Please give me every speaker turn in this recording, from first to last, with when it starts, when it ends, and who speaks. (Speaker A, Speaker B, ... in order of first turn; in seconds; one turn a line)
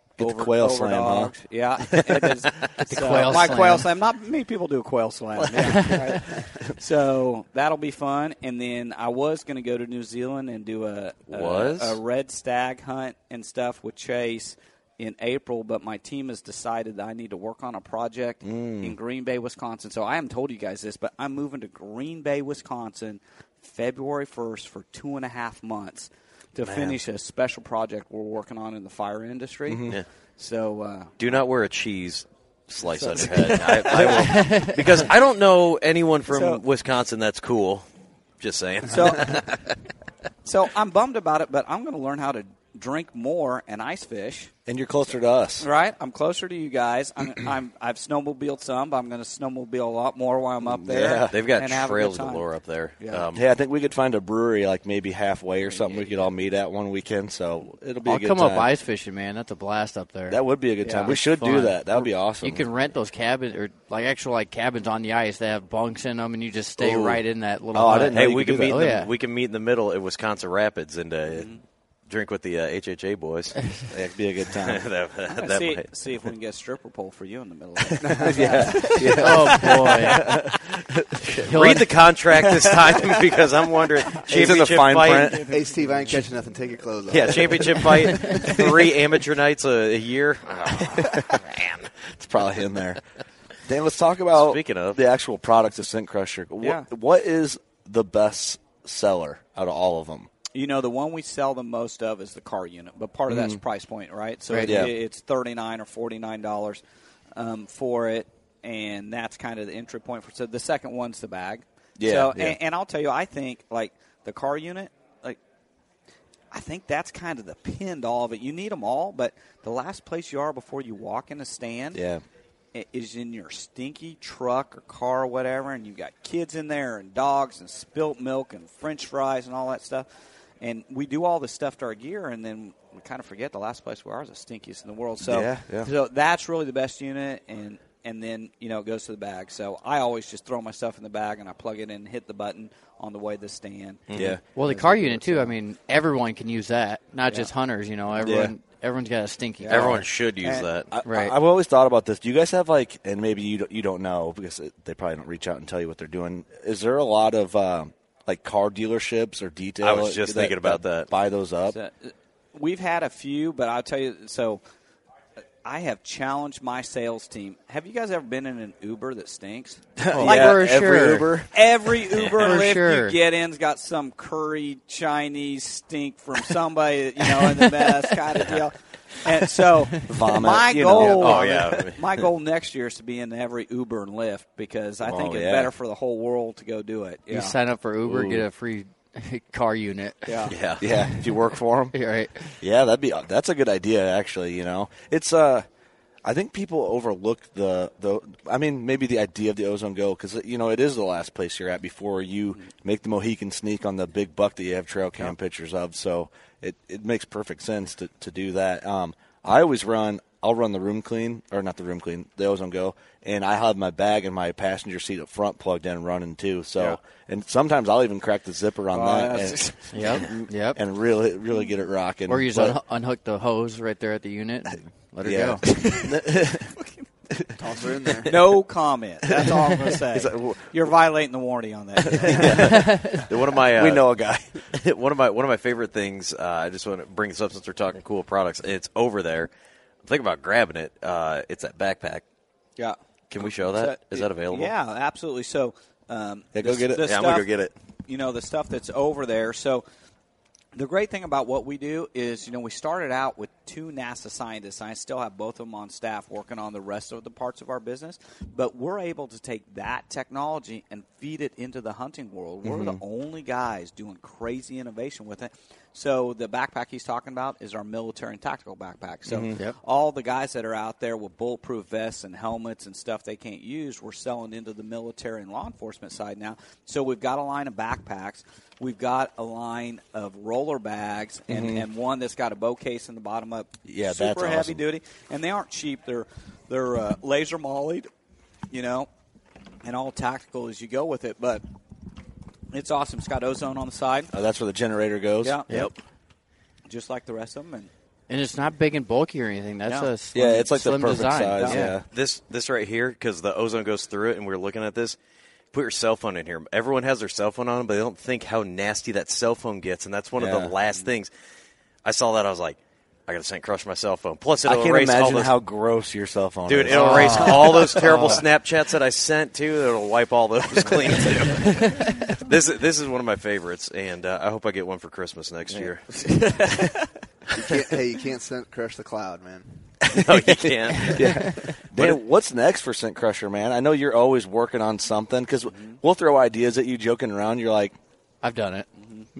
Speaker A: 0.2-31.4
Speaker B: 0.2-1.3
Speaker C: 2.9-3.9
Speaker C: 5.5-6.2
Speaker D: 11.3-12.0
Speaker B: 18.4-19.0
Speaker B: 26.6-27.0
Speaker B: 29.7-30.0
Speaker D: 31.2-37.9
Speaker A: 32.9-34.5
Speaker C: 34.3-34.8
Speaker A: 36.3-36.6
Speaker D: 38.4-39.6
Speaker A: 38.9-39.4
Speaker A: 40.5-44.5
Speaker B: 44.7-45.7
Speaker A: 45.6-52.5
Speaker B: 50.6-51.3
Speaker D: 51.3-53.4
Speaker A: 53.0-53.3
Speaker B: 53.3-58.7
Speaker A: 55.7-56.3
Speaker C: 58.0-60.4
Speaker B: 60.3-62.6
Speaker A: 60.8-61.3
Speaker C: 61.0-61.9
Speaker C: 62.4-69.1
Speaker B: 67.7-68.9
Speaker D: 68.0-71.5
Speaker A: 71.3-71.6
Speaker D: 72.1-73.6
Speaker B: 73.9-74.8
Speaker D: 74.6-76.2
Speaker A: 75.3-80.2
Speaker B: 78.2-81.5
Speaker C: 79.2-80.3
Speaker C: 81.5-81.9
Speaker D: 81.5-85.5
Speaker A: 82.4-83.0
Speaker B: 84.3-85.6
Speaker A: 85.1-85.9
Speaker E: 85.5-88.1
Speaker D: 87.1-91.9
Speaker B: 92.2-93.0
Speaker B: 93.7-100.3
Speaker D: 94.3-95.0
Speaker A: 100.5-106.8
Speaker B: 103.3-103.6
Speaker C: 104.5-104.8
Speaker B: 104.6-104.9
Speaker A: 107.4-115.4
Speaker B: 112.0-112.6
Speaker A: 116.5-122.0
Speaker B: 121.9-122.2
Speaker A: 122.7-130.1
Speaker A: 130.6-145.6
Speaker B: 135.2-135.9
Speaker D: 144.1-144.4
Speaker B: 144.1-144.4
Speaker C: 144.6-150.1
Speaker A: 147.3-147.5
Speaker B: 148.2-148.5
Speaker A: 149.6-150.7
Speaker D: 149.7-150.9
Speaker B: 150.9-161.8
Speaker C: 151.1-151.3
Speaker D: 159.8-161.1
Speaker A: 161.7-164.6
Speaker A: 165.6-170.7
Speaker B: 170.0-171.5
Speaker C: 170.1-171.4
Speaker A: 171.5-187.6
Speaker D: 172.1-172.6
Speaker C: 172.4-173.2
Speaker D: 178.3-178.7
Speaker B: 180.0-181.4
Speaker D: 181.0-182.3
Speaker B: 185.0-185.7
Speaker C: 187.3-190.5
Speaker B: 188.1-188.4
Speaker A: 190.2-190.6
Speaker D: 190.5-190.9
Speaker B: 190.8-192.0
Speaker C: 191.9-192.6
Speaker B: 192.6-195.7
Speaker B: 196.2-222.8
Speaker A: 218.9-220.3
Speaker C: 219.9-220.8
Speaker C: 222.3-225.7
Speaker B: 225.2-226.7
Speaker A: 225.7-226.0
Speaker E: 227.6-228.3
Speaker A: 228.2-232.6
Speaker B: 229.4-230.7
Speaker B: 232.2-232.8
Speaker D: 232.4-234.1
Speaker C: 232.7-233.2
Speaker B: 233.5-234.6
Speaker D: 234.7-239.5
Speaker D: 240.1-242.2
Speaker A: 242.8-247.5
Speaker D: 243.3-244.7
Speaker B: 246.5-247.1
Speaker D: 247.0-247.7
Speaker A: 248.1-249.8
Speaker A: 250.8-288.1
Speaker B: 262.6-263.0
Speaker B: 269.3-269.6
Speaker B: 281.5-281.9
Speaker B: 283.9-284.8
Speaker A: 288.7-289.1
Speaker A: 289.8-291.6
Speaker A: 292.7-294.3
Speaker B: 294.3-295.6
Speaker A: 296.9-297.9
Speaker C: 298.3-301.9
Speaker A: 299.9-300.1
Speaker B: 300.3-302.1
Speaker A: 301.6-301.9
Speaker D: 302.1-305.2
Speaker D: 305.7-311.3
Speaker B: 310.4-310.7
Speaker D: 312.1-315.5
Speaker B: 314.7-318.3
Speaker D: 316.7-326.0
Speaker C: 316.9-318.4
Speaker A: 325.7-326.9
Speaker E: 327.6-329.6
Speaker D: 330.1-331.3
Speaker B: 330.2-337.9
Speaker C: 331.2-331.5
Speaker C: 338.4-338.9
Speaker A: 339.0-339.3